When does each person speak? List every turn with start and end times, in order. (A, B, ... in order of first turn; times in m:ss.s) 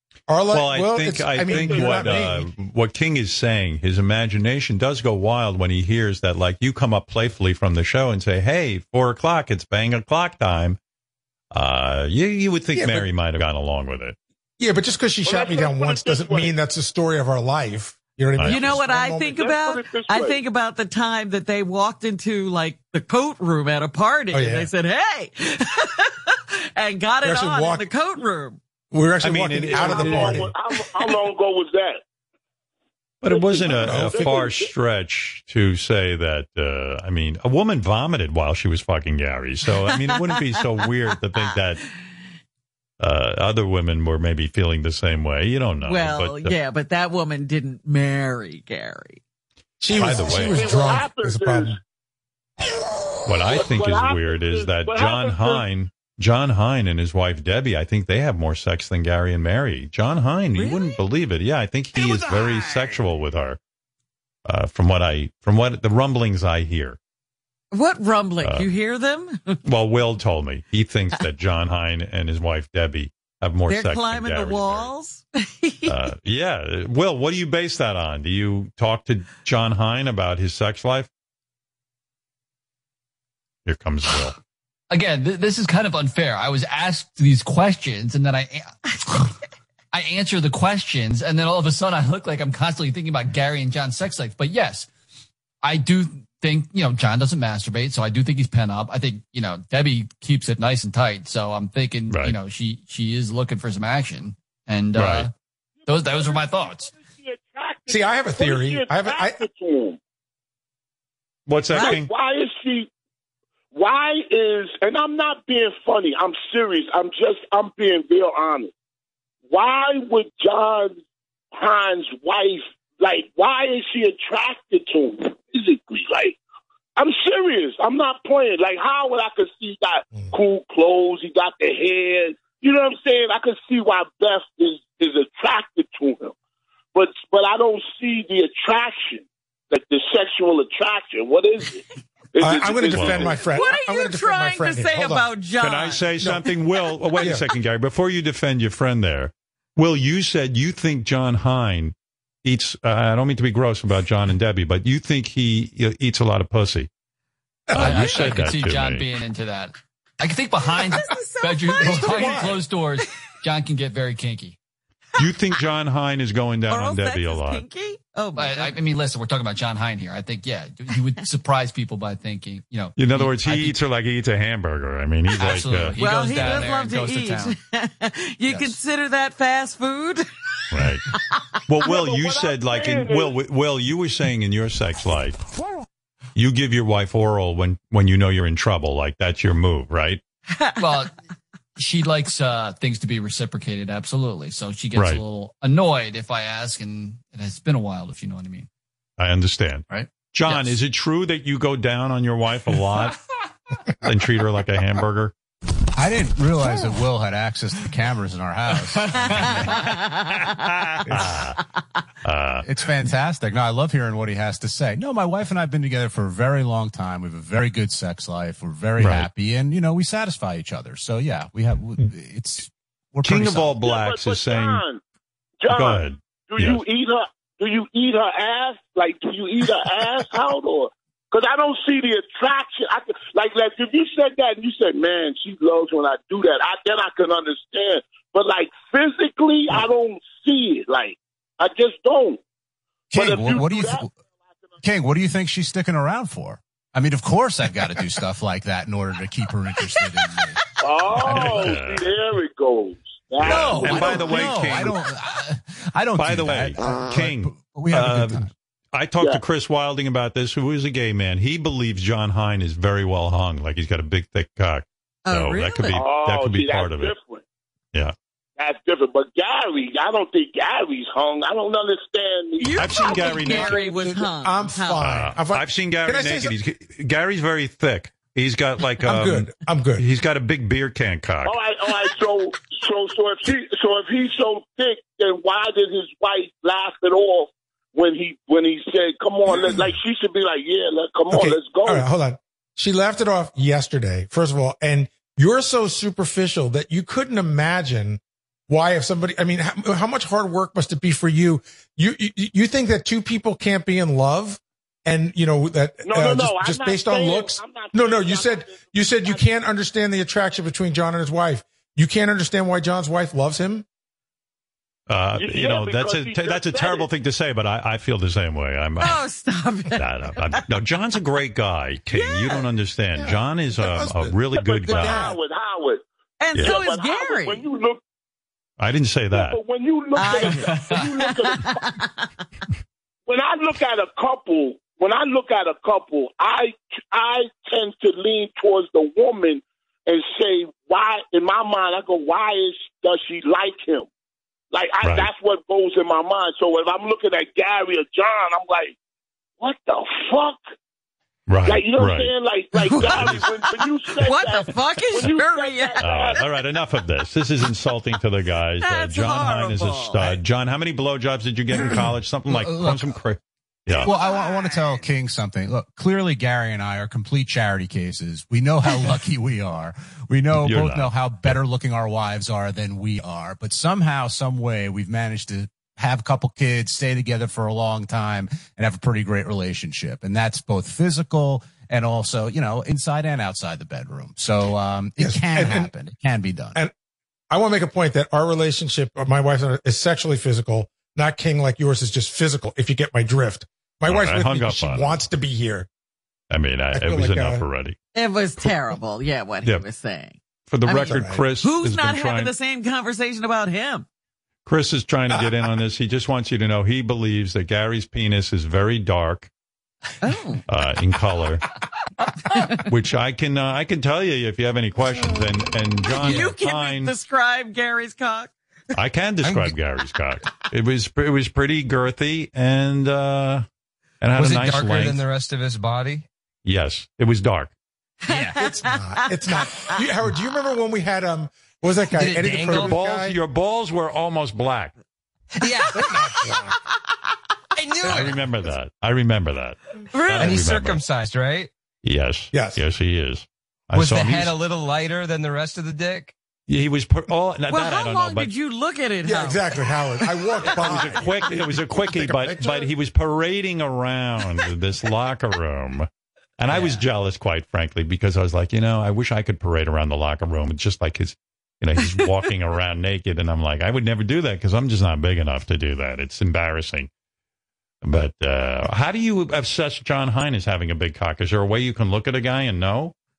0:00.3-0:02.5 A
0:00.5-0:10.8 B
0:01.4-0:02.3 C
0:11.5-0:14.2 B
0:12.8-0:13.1 A
0:14.6-0:19.3 A
0:15.2-0:16.6 C
0:18.4-0:18.7 B
0:18.4-0:28.6 D
0:19.2-0:20.4 C
0:24.3-0:24.7 A
0:27.2-0:27.9 A
0:28.9-0:30.5 A
0:29.2-0:30.5 B
0:29.7-0:32.0 C
0:33.2-0:41.8 B
0:33.3-0:34.7 C
0:33.8-0:34.4 A
0:39.8-0:40.8 D
0:43.0-0:46.6 B
0:45.8-0:49.2 D
0:49.8-0:51.8 A
0:49.9-0:50.8 B
0:50.2-0:51.8 C
0:53.3-1:03.6 B
0:53.5-0:55.6 C
1:00.6-1:01.0 D
1:02.0-1:02.7 D
1:04.5-1:07.0 B
1:07.7-1:09.6 D
1:08.4-1:08.7 B
1:09.6-1:14.9 B
1:13.7-1:16.0 D
1:15.9-1:21.1 B
1:23.7-1:24.4 B
1:24.9-1:29.3 E
1:29.9-1:34.9 E
1:35.6-1:45.3 E
1:42.1-1:42.4 B
1:45.0-1:45.3 B
1:45.9-1:50.0 C
1:45.9-1:46.9 E
1:47.9-1:49.4 A
1:51.5-1:52.1 B
1:51.7-1:52.0 D
1:51.7-1:52.9 C
1:53.7-1:58.7 C
1:59.5-2:01.0 C
2:01.5-2:06.4 C
2:07.0-2:16.4 C
2:17.0-2:23.4 C
2:22.4-2:25.3 A
2:22.9-2:23.4 B
2:23.4-2:26.3 D
2:25.6-2:36.9 B
2:27.1-2:27.4 D
2:37.7-2:38.0 A
2:37.7-2:39.1 B
2:37.7-2:44.6 E
2:38.0-2:38.3 D
2:40.9-2:42.6 D
2:41.8-2:42.6 A
2:45.2-2:47.6 B
2:46.7-2:48.8 D
2:48.4-2:53.8 E
2:53.0-2:56.0 B
2:55.4-2:57.6 E
2:56.0-3:01.2 D
2:58.5-2:58.8 E
3:00.7-3:01.0 B
3:01.7-3:05.4 B
3:01.8-3:03.3 C
3:06.4-3:10.2 B
3:10.8-3:11.1 E
3:11.8-3:18.7 E
3:15.0-3:15.2 B
3:19.2-3:23.2 B
3:19.9-3:20.8 E
3:24.0-3:25.3 B
3:26.0-3:29.6 F
3:29.7-3:31.0 D
3:31.1-3:31.6 B
3:32.2-3:32.7 B
3:32.6-3:43.7 F
3:39.0-3:39.3 B
3:43.2-3:44.8 B
3:43.8-3:45.0 C
3:45.6-4:02.4 C
3:45.7-3:46.8 B
4:03.1-4:04.1 C
4:03.1-4:04.1 F
4:04.8-4:10.6 F
4:10.0-4:10.3 D
4:10.8-4:14.6 C
4:11.2-4:11.8 F
4:11.3-4:12.1 B
4:13.4-4:14.4 D
4:13.4-4:15.0 B
4:13.7-4:18.5 F
4:16.2-4:27.2 B
4:25.3-4:26.1 D
4:25.9-4:27.4 C
4:28.6-4:33.7 C
4:32.6-4:35.3 D
4:32.8-4:33.8 B
4:33.5-4:36.5 A
4:35.0-4:41.6 B
4:39.1-4:40.0 A
4:41.4-4:52.1 C
4:49.6-4:49.9 A
4:51.3-5:13.9 A
5:06.0-5:08.9 C
5:15.1-5:19.2 B
5:15.4-5:17.1 C
5:19.0-5:20.6 D
5:20.0-5:25.3 B
5:22.1-5:22.6 D
5:23.2-5:25.4 A
5:24.6-5:28.0 C
5:26.4-5:27.7 D
5:26.5-5:26.8 B
5:28.8-5:29.6 B
5:29.3-5:31.9 C
5:30.1-5:32.3 D
5:33.3-5:44.1 C
5:44.7-5:49.0 C
5:45.0-5:45.3 B
5:49.6-5:50.6 C
5:51.5-5:52.3 B
5:51.7-5:56.4 C
5:52.8-5:56.2 D
5:53.0-5:53.5 B
5:56.0-6:04.1 B
5:58.8-6:00.4 D
6:01.8-6:03.2 F
6:04.0-6:05.0 D
6:04.0-6:26.8 F
6:10.6-6:11.6 B
6:25.2-6:25.9 A
6:27.5-6:35.9 A
6:34.1-6:35.2 B
6:36.5-6:38.0 B
6:36.9-6:37.7 A
6:38.2-6:44.1 D
6:40.7-6:42.5 B
6:41.0-6:41.4 A
6:44.7-6:49.5 B
6:50.2-6:50.6 D
6:50.7-6:51.6 B
6:52.9-6:57.1 B
6:56.1-6:58.5 D
6:58.9-7:03.6 B
6:59.4-6:59.8 G
7:04.2-7:05.2 B
7:04.4-7:06.3 G
7:06.6-7:07.7 B
7:08.2-7:10.1 D
7:08.6-7:13.4 A
7:12.1-7:12.9 G
7:12.7-7:14.9 B
7:15.6-7:16.4 G
7:15.9-7:16.2 D
7:17.8-7:18.4 G
7:18.0-7:18.3 D
7:18.1-7:21.0 B
7:20.1-7:20.6 D
7:20.4-7:21.7 G
7:22.0-7:24.5 B
7:22.5-7:22.8 A
7:23.9-7:26.3 G
7:26.7-7:28.5 B
7:27.7-7:30.8 D
7:29.2-7:31.4 A
7:30.7-7:47.1 B
7:32.1-7:32.9 A
7:48.0-7:53.1 B